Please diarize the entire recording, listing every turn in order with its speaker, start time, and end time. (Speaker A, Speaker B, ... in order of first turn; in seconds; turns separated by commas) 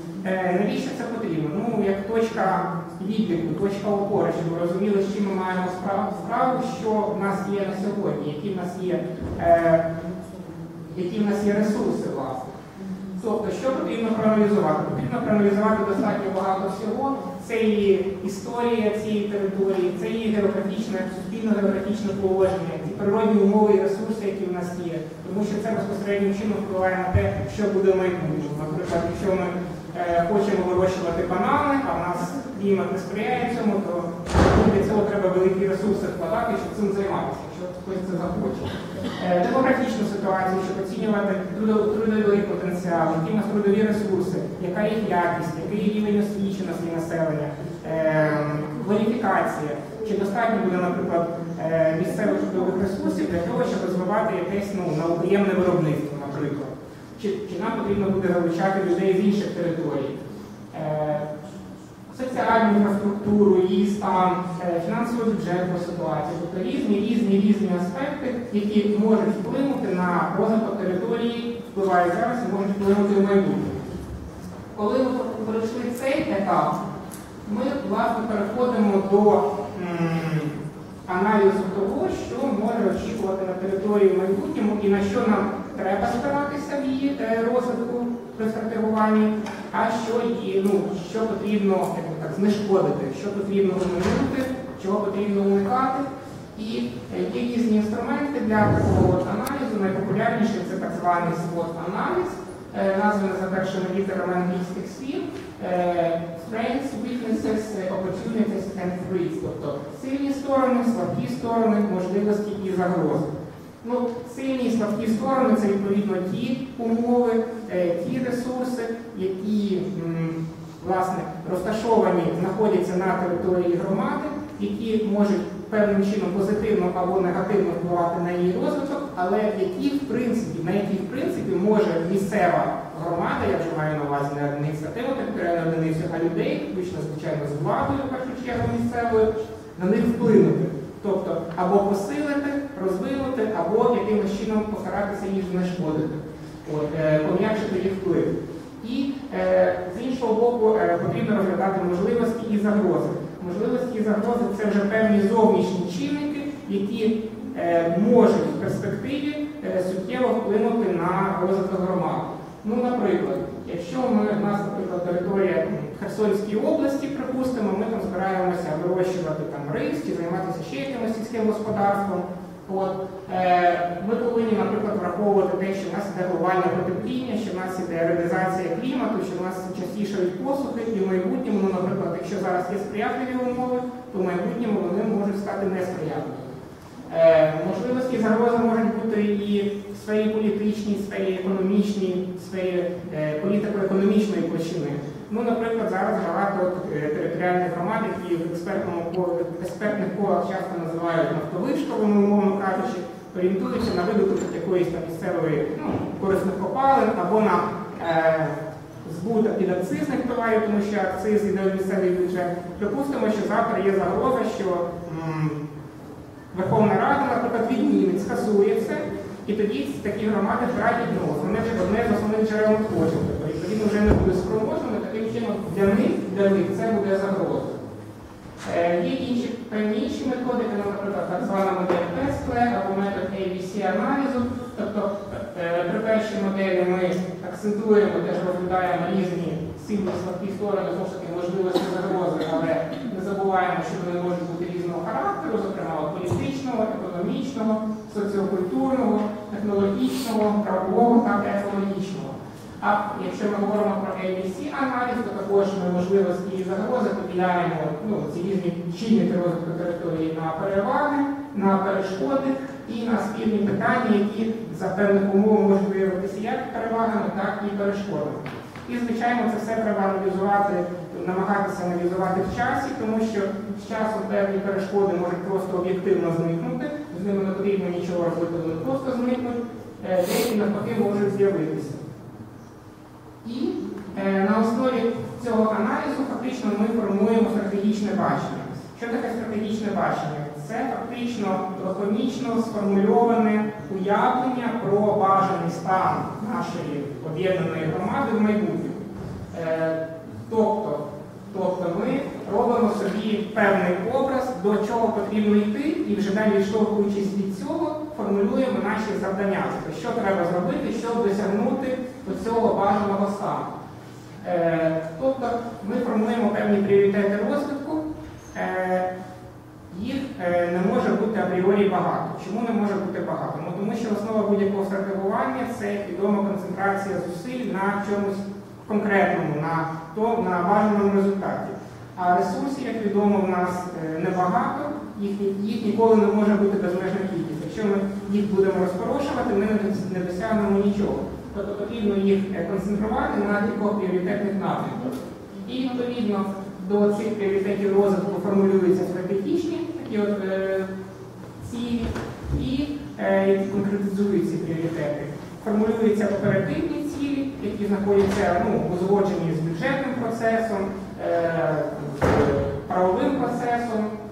Speaker A: 0.2-9.9, Speaker A: 10.9-12.6, Speaker A: 13.2-60.2, Speaker A: 60.7-61.3, Speaker A: 62.1-73.9, Speaker A: 74.7-76.8, Speaker A: 77.4-113.3, Speaker A: 113.8-186.6, Speaker A: 187.1-215.6, Speaker A: 216.5-227.8, Speaker A: 228.6-282.0, Speaker A: 283.4-313.7, Speaker A: 314.4-319.1, Speaker A: 319.9-350.9, Speaker A: 351.6-364.1